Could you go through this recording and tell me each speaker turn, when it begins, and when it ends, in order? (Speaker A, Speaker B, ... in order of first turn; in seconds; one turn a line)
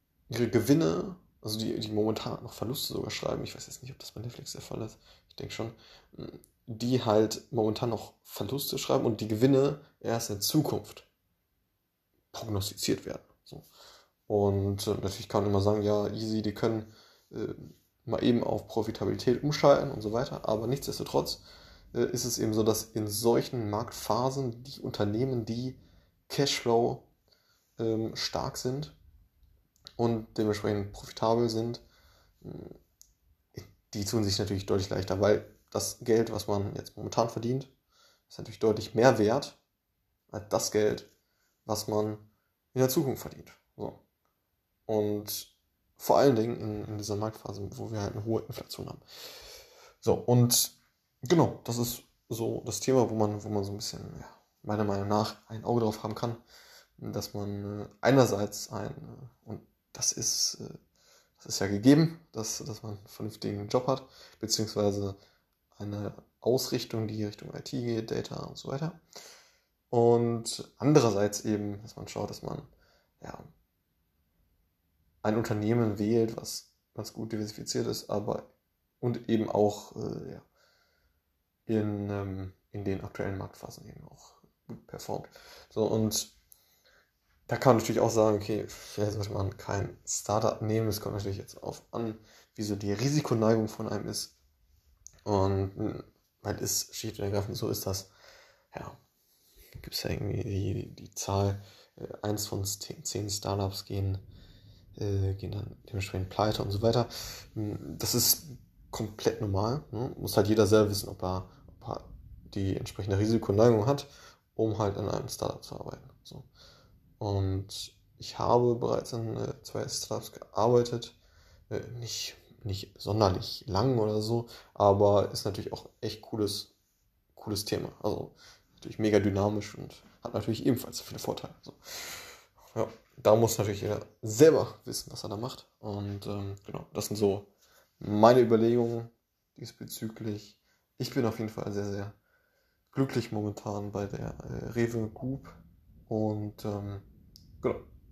Speaker A: 0.3-11.1
Speaker A: 12.3-13.7
Speaker A: 14.3-21.4
Speaker A: 21.9-27.1
Speaker A: 27.8-28.9
Speaker A: 30.0-31.8
Speaker A: 32.4-32.8
Speaker A: 33.5-37.7
Speaker A: 38.3-39.6
Speaker A: 40.3-41.1
Speaker A: 41.6-44.0
Speaker A: 44.9-49.0
Speaker A: 50.0-50.7
Speaker A: 51.2-56.4
Speaker A: 57.0-60.8
Speaker A: 61.4-65.2
Speaker A: 65.7-69.0
Speaker A: 69.9-72.7
Speaker A: 73.2-73.5
Speaker A: 75.2-78.5
Speaker A: 79.0-80.4
Speaker A: 81.7-86.3
Speaker A: 87.5-94.3
Speaker A: 95.2-98.1
Speaker A: 98.7-99.0
Speaker A: 99.8-104.2
Speaker A: 105.0-116.5
Speaker A: 117.2-121.2
Speaker A: 121.7-126.7
Speaker A: 127.3-132.2
Speaker A: 132.7-137.5
Speaker A: 138.0-142.1
Speaker A: 142.9-145.6
Speaker A: 146.1-147.0